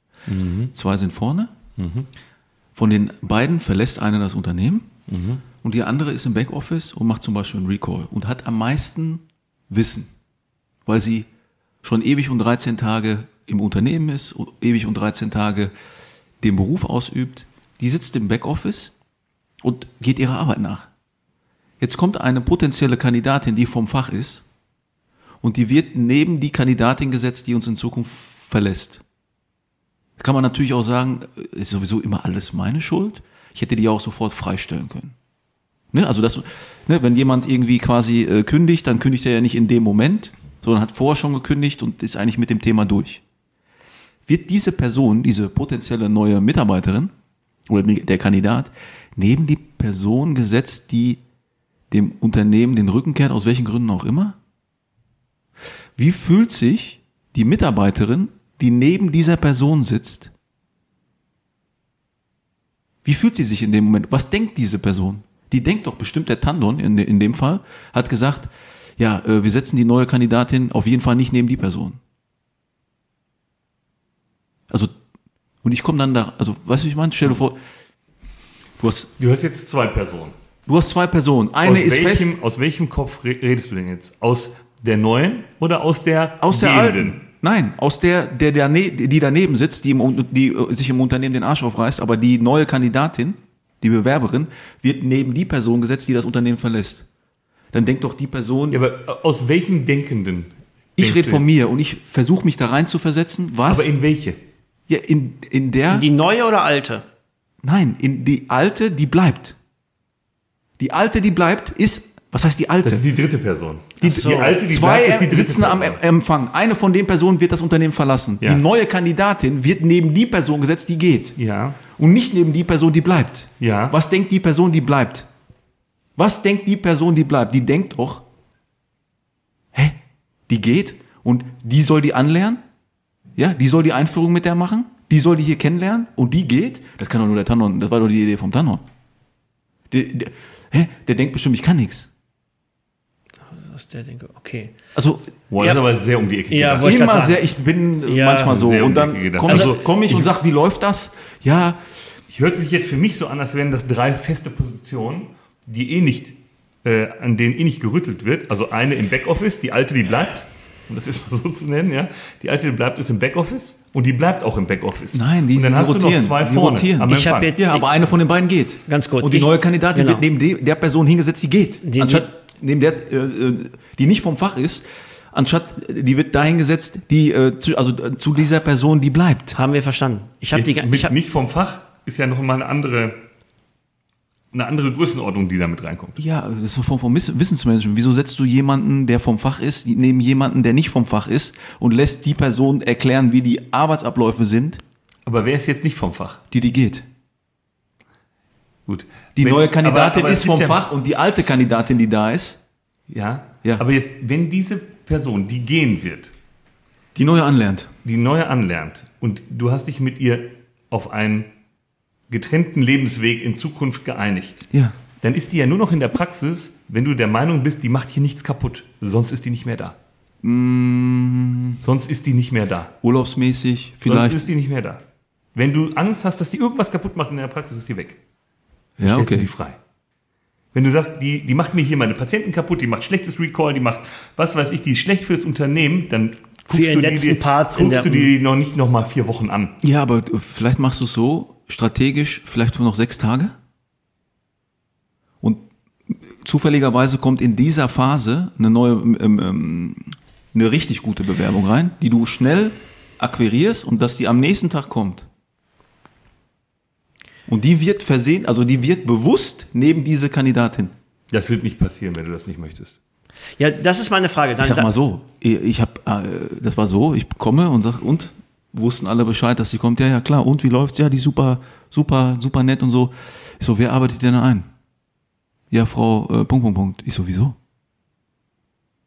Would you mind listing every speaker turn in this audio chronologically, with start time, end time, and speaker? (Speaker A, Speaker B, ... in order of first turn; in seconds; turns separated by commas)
Speaker A: 0.3-0.7, Speaker B: 0.7-1.5, Speaker A: 1.8-2.1, Speaker B: 2.8-4.9, Speaker A: 5.1-5.4, Speaker B: 5.6-10.1, Speaker B: 10.8-11.3, Speaker B: 11.8-15.7, Speaker B: 16.4-18.9, Speaker B: 19.6-20.9, Speaker B: 21.8-24.4, Speaker B: 25.4-29.0, Speaker B: 30.2-35.1, Speaker B: 35.9-43.2, Speaker B: 44.3-47.1, Speaker B: 47.7-51.2, Speaker B: 51.9-54.4, Speaker B: 56.0-60.3, Speaker B: 63.0-72.0, Speaker B: 75.6-77.6, Speaker B: 78.8-79.1, Speaker A: 79.2-80.3, Speaker B: 80.7-82.3, Speaker A: 81.6-87.2, Speaker B: 86.4-97.0, Speaker B: 97.7-98.8, Speaker A: 98.7-101.5, Speaker B: 101.0-103.9, Speaker A: 103.7-104.4, Speaker B: 104.9-106.1, Speaker C: 105.9-107.0, Speaker B: 107.6-109.5, Speaker B: 110.8-113.0, Speaker A: 112.8-116.0, Speaker C: 114.0-114.6, Speaker B: 114.0-121.3, Speaker A: 121.4-121.8, Speaker B: 121.9-125.3, Speaker A: 123.6-124.0, Speaker B: 126.2-128.2, Speaker B: 130.5-132.6, Speaker B: 133.3-138.8, Speaker B: 139.9-142.1, Speaker C: 143.4-144.7, Speaker B: 144.9-145.3, Speaker A: 145.5-146.9, Speaker C: 146.5-147.5, Speaker B: 146.8-151.8, Speaker C: 148.0-148.6, Speaker A: 148.4-150.2, Speaker C: 149.4-149.7, Speaker A: 152.3-167.5, Speaker B: 165.1-179.6, Speaker C: 167.1-167.9, Speaker C: 168.9-170.2, Speaker C: 171.8-172.3, Speaker C: 179.5-181.1, Speaker A: 180.5-183.2, Speaker A: 184.5-186.2, Speaker B: 186.2-194.8, Speaker A: 195.2-196.4, Speaker B: 196.5-197.0, Speaker A: 198.9-200.8, Speaker B: 199.3-202.6, Speaker A: 203.1-206.3, Speaker B: 207.1-207.9, Speaker A: 208.0-211.5, Speaker A: 212.3-214.7, Speaker B: 214.7-214.9, Speaker A: 215.2-219.9, Speaker B: 220.4-221.8, Speaker A: 221.8-222.9, Speaker B: 223.0-224.5, Speaker A: 224.0-225.0, Speaker A: 225.5-228.2, Speaker B: 229.0-229.5, Speaker A: 229.0-229.8, Speaker A: 230.7-239.7, Speaker C: 236.7-238.3, Speaker B: 239.8-243.5, Speaker B: 245.4-255.3, Speaker B: 257.5-260.9, Speaker A: 261.3-263.0, Speaker C: 263.6-264.9, Speaker B: 264.6-274.7, Speaker B: 275.7-277.6